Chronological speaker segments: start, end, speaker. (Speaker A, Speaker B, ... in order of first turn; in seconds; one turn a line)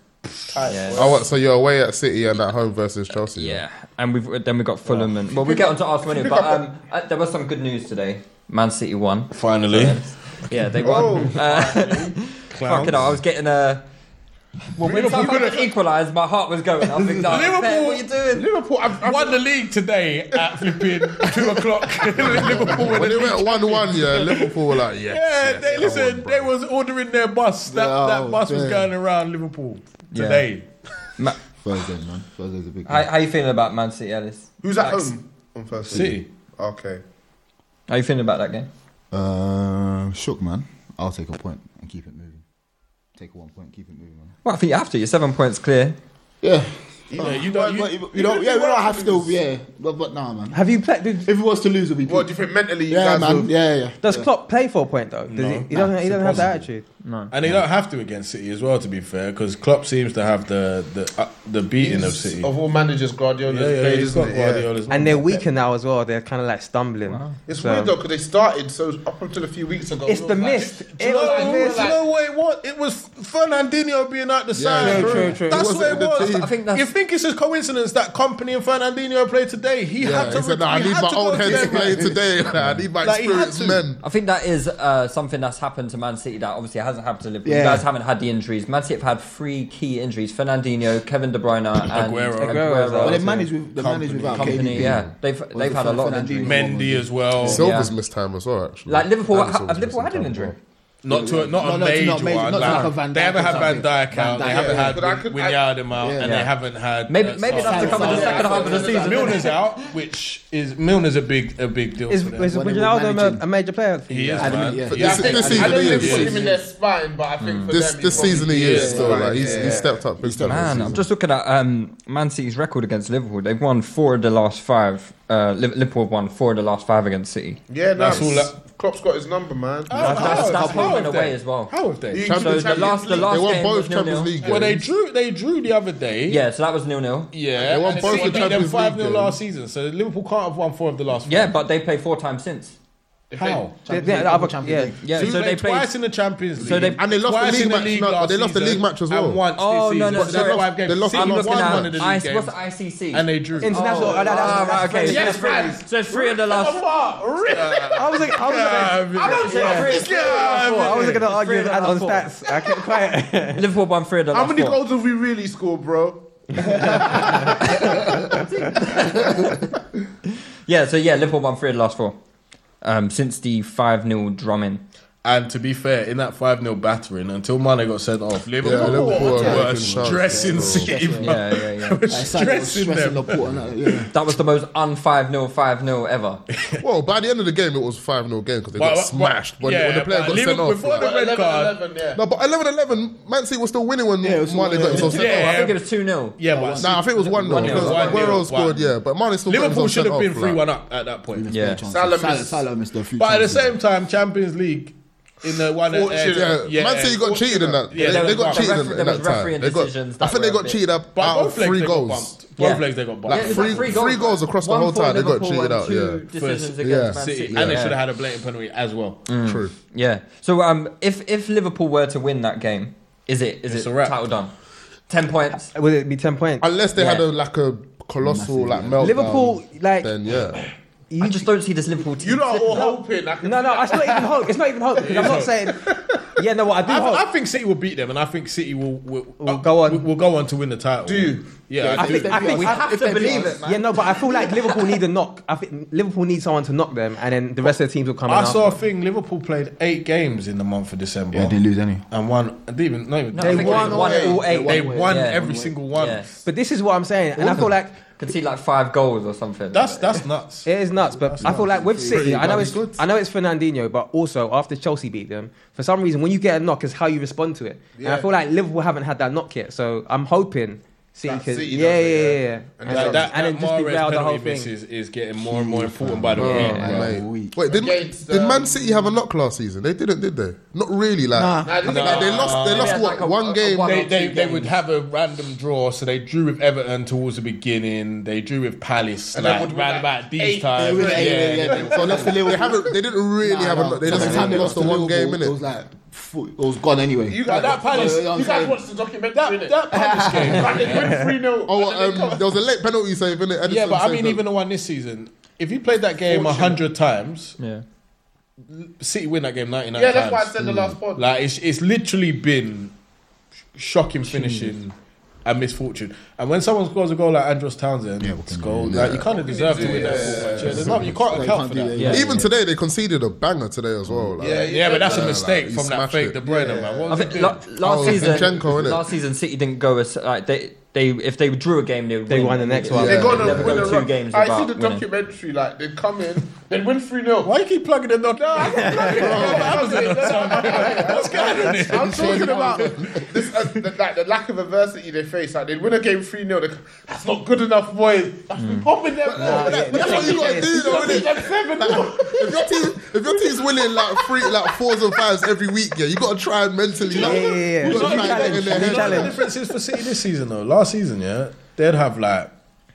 Speaker A: 0.5-1.3
Speaker B: 0.6-1.1
Speaker C: 0.9-3.6
Speaker B: 3.2-13.8
Speaker D: 4.8-5.2
Speaker A: 5.3-6.6
Speaker D: 9.3-13.2
Speaker A: 10.8-12.1
Speaker B: 14.7-18.5
Speaker D: 14.8-15.7
Speaker A: 14.9-15.7
Speaker D: 17.1-18.1
Speaker A: 18.3-19.5
Speaker D: 19.0-24.5
Speaker A: 20.3-23.0
Speaker C: 22.6-26.5
Speaker D: 25.1-30.7
Speaker E: 27.6-28.9
Speaker B: 30.1-30.5
Speaker E: 31.6-33.1
Speaker B: 32.9-35.1
Speaker A: 34.6-37.0
Speaker D: 35.9-36.3
Speaker B: 37.9-38.7
Speaker E: 39.1-42.4
Speaker E: 43.2-44.3
Speaker B: 44.4-46.0
Speaker E: 46.4-50.6
Speaker A: 47.1-47.8
Speaker D: 47.2-49.4
Speaker F: 50.5-51.3
Speaker E: 51.2-52.3
Speaker A: 52.0-53.5
Speaker E: 52.9-54.3
Speaker F: 54.0-56.8
Speaker D: 55.3-56.5
Speaker E: 55.7-56.6
Speaker B: 57.0-57.3
Speaker D: 57.3-62.5
Speaker A: 61.8-64.7
Speaker D: 63.5-65.4
Speaker F: 64.9-67.9
Speaker B: 67.1-67.4
Speaker A: 67.5-72.0
Speaker F: 70.0-71.9
Speaker D: 70.5-82.2
Speaker C: 74.5-76.5
Speaker F: 74.8-75.7
Speaker B: 75.9-76.9
Speaker C: 80.0-84.0
Speaker E: 81.4-82.0
Speaker D: 83.0-83.8
Speaker B: 84.0-93.2
Speaker E: 87.4-87.9
Speaker D: 91.8-94.9
Speaker F: 92.4-93.2
Speaker E: 93.0-97.6
Speaker B: 94.3-96.7
Speaker D: 96.4-97.6
Speaker C: 97.4-100.5
Speaker B: 97.5-97.9
Speaker B: 98.9-100.5
Speaker D: 101.0-112.5
Speaker E: 101.0-105.0
Speaker B: 102.5-103.7
Speaker A: 104.5-105.9
Speaker E: 106.0-106.3
Speaker B: 106.2-106.5
Speaker B: 107.0-109.9
Speaker E: 107.5-109.5
Speaker A: 107.6-109.5
Speaker F: 112.1-114.7
Speaker E: 112.4-113.4
Speaker D: 114.1-116.4
Speaker E: 114.4-116.7
Speaker C: 114.8-116.3
Speaker A: 115.0-120.0
Speaker B: 117.4-117.8
Speaker C: 117.7-121.0
Speaker E: 118.2-121.0
Speaker D: 118.5-119.0
Speaker B: 120.4-128.2
Speaker A: 127.7-130.7
Speaker D: 127.9-128.5
Speaker D: 129.9-132.4
Speaker B: 129.9-134.4
Speaker E: 130.4-131.0
Speaker A: 132.1-133.5
Speaker C: 132.2-134.9
Speaker D: 134.4-136.4
Speaker B: 136.3-137.3
Speaker D: 137.3-141.5
Speaker A: 137.6-138.7
Speaker C: 137.6-139.4
Speaker B: 141.2-142.8
Speaker A: 143.3-143.7
Speaker D: 143.3-143.8
Speaker E: 143.8-145.3
Speaker F: 143.9-144.9
Speaker B: 145.0-146.0
Speaker D: 145.1-152.6
Speaker C: 145.2-145.4
Speaker B: 146.6-147.0
Speaker C: 146.6-149.4
Speaker B: 149.6-156.9
Speaker C: 150.1-152.2
Speaker D: 153.1-155.3
Speaker F: 153.6-155.5
Speaker E: 153.7-154.4
Speaker A: 155.0-158.4
Speaker D: 157.5-161.3
Speaker F: 157.9-163.6
Speaker A: 159.1-160.8
Speaker B: 159.2-162.3
Speaker B: 163.5-164.8
Speaker A: 164.3-168.3
Speaker F: 166.6-167.3
Speaker B: 167.5-169.5
Speaker B: 170.7-172.2
Speaker B: 172.8-174.8
Speaker D: 175.2-183.4
Speaker C: 178.6-181.0
Speaker A: 178.6-179.6
Speaker E: 178.7-181.4
Speaker B: 181.2-182.2
Speaker E: 182.1-184.1
Speaker B: 184.1-186.4
Speaker D: 186.5-186.8
Speaker C: 186.8-191.1
Speaker D: 188.8-191.8
Speaker A: 190.9-192.2
Speaker C: 192.1-195.6
Speaker E: 194.2-195.2
Speaker B: 194.9-196.4
Speaker D: 195.0-195.8
Speaker D: 196.4-198.9
Speaker E: 196.4-198.4
Speaker C: 196.8-200.6
Speaker B: 197.5-198.2
Speaker D: 199.4-201.5
Speaker E: 201.3-203.8
Speaker B: 201.5-201.8
Speaker A: 201.9-202.6
Speaker D: 203.2-208.7
Speaker A: 205.8-208.1
Speaker C: 206.3-212.4
Speaker B: 208.0-210.8
Speaker D: 211.2-214.2
Speaker B: 212.6-218.0
Speaker C: 213.2-216.2
Speaker D: 216.3-219.2
Speaker C: 216.8-217.8
Speaker B: 219.3-224.5
Speaker C: 219.4-219.7
Speaker D: 223.7-224.2
Speaker B: 225.1-225.7
Speaker F: 225.7-226.7
Speaker C: 226.6-230.6
Speaker B: 226.9-227.2
Speaker E: 228.2-229.2
Speaker F: 229.0-230.1
Speaker F: 231.1-231.5
Speaker B: 231.2-232.9
Speaker A: 232.2-234.5
Speaker F: 232.7-235.8
Speaker D: 235.0-235.6
Speaker F: 236.4-237.2
Speaker D: 236.8-242.7
Speaker F: 239.4-240.1
Speaker A: 241.0-242.2
Speaker E: 241.8-243.8
Speaker F: 241.9-248.8
Speaker B: 242.5-244.5
Speaker D: 248.2-256.4
Speaker E: 251.3-252.1
Speaker B: 253.3-256.3
Speaker F: 253.4-254.6
Speaker E: 253.5-255.8
Speaker A: 253.5-254.4
Speaker F: 256.4-257.9
Speaker B: 258.2-260.2
Speaker D: 259.7-260.7
Speaker F: 260.6-274.7
Speaker D: 261.3-261.6
Speaker E: 261.4-262.8
Speaker C: 262.1-263.0
Speaker A: 268.0-268.3
Speaker A: 271.2-273.3
Speaker D: 272.9-277.1
Speaker E: 275.4-277.6
Speaker C: 276.4-284.1
Speaker A: 277.7-279.1
Speaker E: 281.4-281.7
Speaker F: 281.4-281.6
Speaker A: 281.6-283.1
Speaker D: 281.8-283.1
Speaker B: 282.7-284.8
Speaker D: 283.8-292.3
Speaker A: 289.3-292.3
Speaker E: 290.7-298.9
Speaker C: 291.9-295.5
Speaker D: 294.1-294.6
Speaker A: 294.1-294.7
Speaker A: 297.3-302.5
Speaker D: 297.4-298.3
Speaker D: 299.3-301.2
Speaker E: 299.9-300.9
Speaker C: 301.6-304.4
Speaker D: 303.6-307.6
Speaker A: 306.3-306.8
Speaker B: 307.6-307.8
Speaker D: 308.6-310.5
Speaker A: 309.9-311.3
Speaker D: 311.1-312.9
Speaker D: 313.7-314.9
Speaker E: 314.3-314.8
Speaker D: 315.4-322.3
Speaker E: 318.2-322.5
Speaker C: 318.9-319.2
Speaker A: 319.3-320.8
Speaker C: 320.0-321.1
Speaker B: 321.9-322.2
Speaker C: 322.1-326.5
Speaker E: 324.1-324.4
Speaker A: 324.4-325.5
Speaker D: 324.4-328.4
Speaker A: 326.5-327.2
Speaker B: 327.1-335.0
Speaker C: 327.8-329.1
Speaker F: 332.3-333.4
Speaker C: 332.9-334.0
Speaker A: 332.9-337.5
Speaker D: 337.4-342.8
Speaker A: 338.4-354.9
Speaker F: 338.7-339.2
Speaker C: 339.2-339.9
Speaker E: 342.0-343.2
Speaker B: 348.6-348.9
Speaker C: 349.2-359.5
Speaker F: 349.4-351.1
Speaker A: 357.1-357.4
Speaker F: 357.1-359.3
Speaker E: 357.8-359.4
Speaker D: 357.9-362.5